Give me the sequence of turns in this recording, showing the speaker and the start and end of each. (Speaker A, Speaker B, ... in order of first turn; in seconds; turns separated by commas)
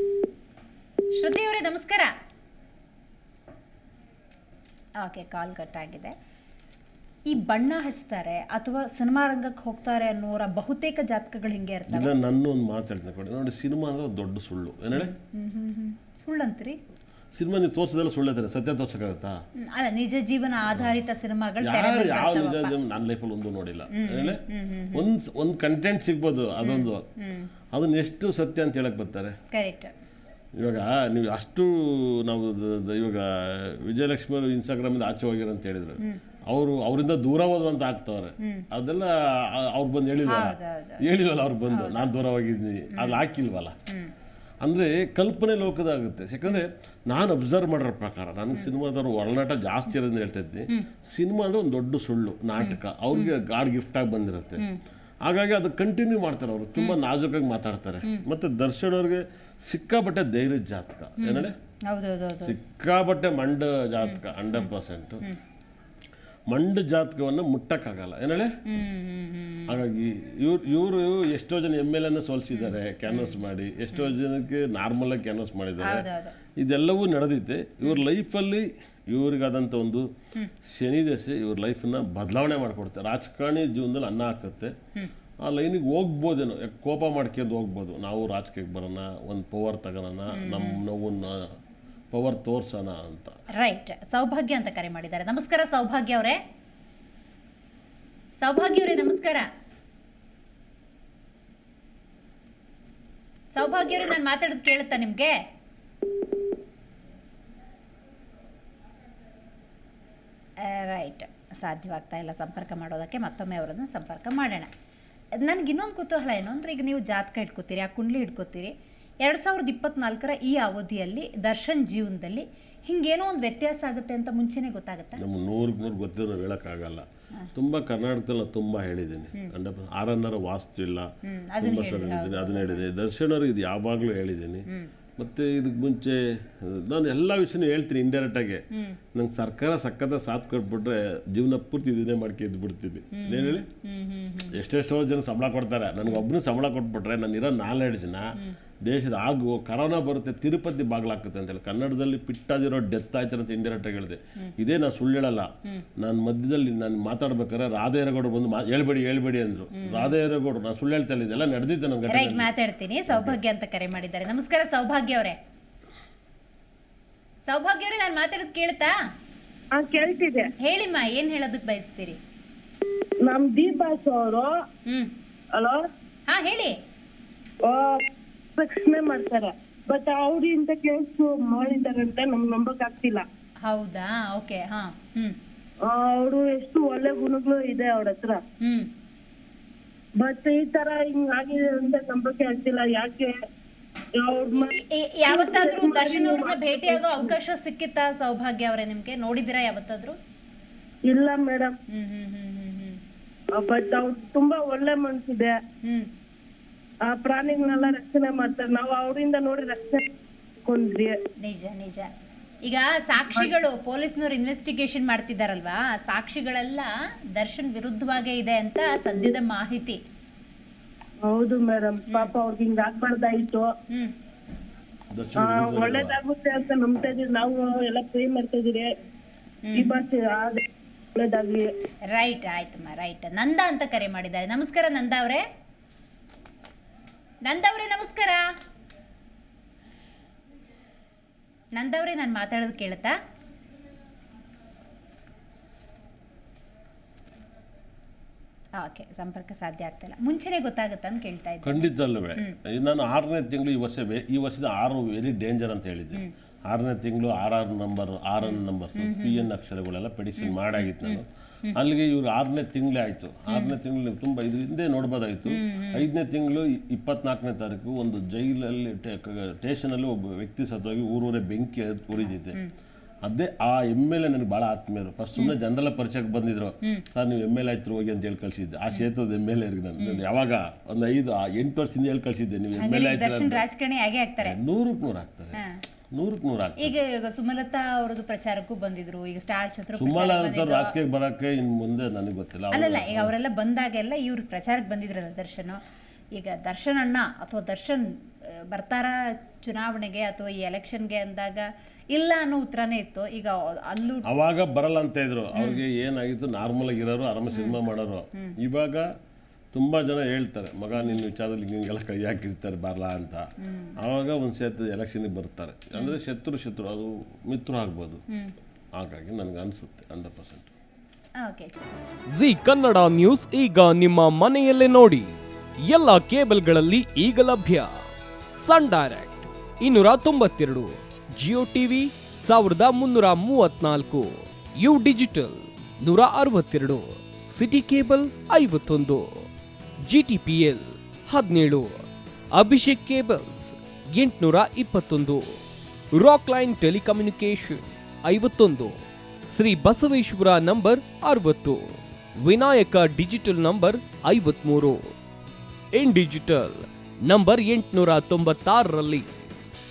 Speaker A: 1.1-2.1, Speaker A: 5.0-6.1, Speaker A: 7.3-12.1, Speaker B: 11.9-15.1, Speaker A: 14.9-16.8, Speaker B: 17.3-19.4, Speaker A: 19.6-22.7, Speaker B: 21.6-24.4, Speaker A: 23.9-25.0, Speaker B: 24.9-27.0, Speaker A: 26.6-27.5, Speaker B: 27.7-29.3, Speaker A: 29.5-29.9, Speaker B: 30.6-43.7, Speaker A: 40.3-41.0, Speaker A: 41.7-42.1, Speaker A: 42.9-43.2, Speaker B: 44.6-54.6, Speaker A: 52.6-53.3, Speaker B: 55.2-61.5, Speaker A: 61.2-62.5, Speaker B: 62.4-65.2, Speaker A: 64.0-64.7, Speaker B: 66.5-68.5, Speaker A: 68.7-69.8, Speaker B: 69.7-76.1, Speaker A: 72.5-73.3, Speaker A: 75.8-76.3, Speaker B: 76.6-80.0, Speaker B: 80.6-84.7, Speaker B: 85.4-91.5, Speaker A: 90.3-90.8, Speaker B: 92.1-93.3, Speaker A: 93.6-96.4, Speaker A: 98.4-99.5, Speaker A: 103.5-105.3, Speaker A: 110.6-114.7, Speaker A: 115.4-125.2, Speaker B: 125.2-131.1, Speaker A: 131.2-132.8, Speaker B: 131.6-134.7, Speaker B: 135.2-138.6, Speaker B: 139.1-143.7, Speaker A: 143.1-144.6, Speaker B: 144.5-148.3, Speaker B: 148.8-162.5, Speaker A: 159.7-160.1, Speaker A: 162.1-165.4, Speaker B: 163.1-163.4, Speaker A: 167.4-168.9, Speaker C: 169.7-170.5, Speaker A: 170.6-172.2, Speaker C: 173.2-174.5, Speaker C: 175.5-175.8, Speaker A: 176.3-176.7, Speaker C: 177.6-178.0, Speaker C: 178.6-183.2, Speaker A: 183.6-185.3, Speaker C: 185.8-188.4, Speaker A: 188.6-188.9, Speaker C: 190.2-193.3, Speaker C: 194.2-194.7, Speaker A: 194.5-200.2, Speaker C: 195.3-197.3, Speaker C: 201.1-201.8, Speaker A: 201.9-203.0, Speaker C: 203.5-205.6, Speaker C: 207.0-210.1, Speaker C: 210.6-211.1, Speaker A: 211.4-212.1, Speaker A: 212.6-220.0, Speaker C: 221.2-223.7, Speaker B: 225.1-226.2, Speaker C: 225.4-228.9, Speaker A: 229.7-229.9, Speaker C: 229.7-230.6, Speaker C: 231.1-231.7, Speaker A: 232.1-235.4, Speaker A: 237.4-238.4, Speaker A: 241.7-243.1, Speaker A: 248.8-251.8, Speaker B: 251.6-272.6, Speaker A: 258.4-259.4, Speaker A: 260.4-261.8, Speaker A: 265.5-266.0, Speaker B: 273.2-283.6, Speaker A: 282.8-284.6, Speaker B: 284.4-285.6, Speaker B: 286.1-286.9, Speaker A: 286.8-290.9, Speaker B: 289.9-293.3, Speaker A: 292.7-295.8, Speaker A: 296.4-304.2, Speaker B: 304.3-309.1, Speaker A: 305.5-305.8, Speaker A: 307.5-307.8, Speaker B: 309.7-313.4, Speaker A: 313.6-313.9, Speaker B: 314.0-318.2, Speaker B: 318.9-320.7, Speaker A: 321.4-321.8, Speaker D: 322.3-327.9, Speaker D: 328.6-339.4, Speaker D: 340.1-345.6, Speaker D: 346.1-355.1, Speaker D: 355.9-359.3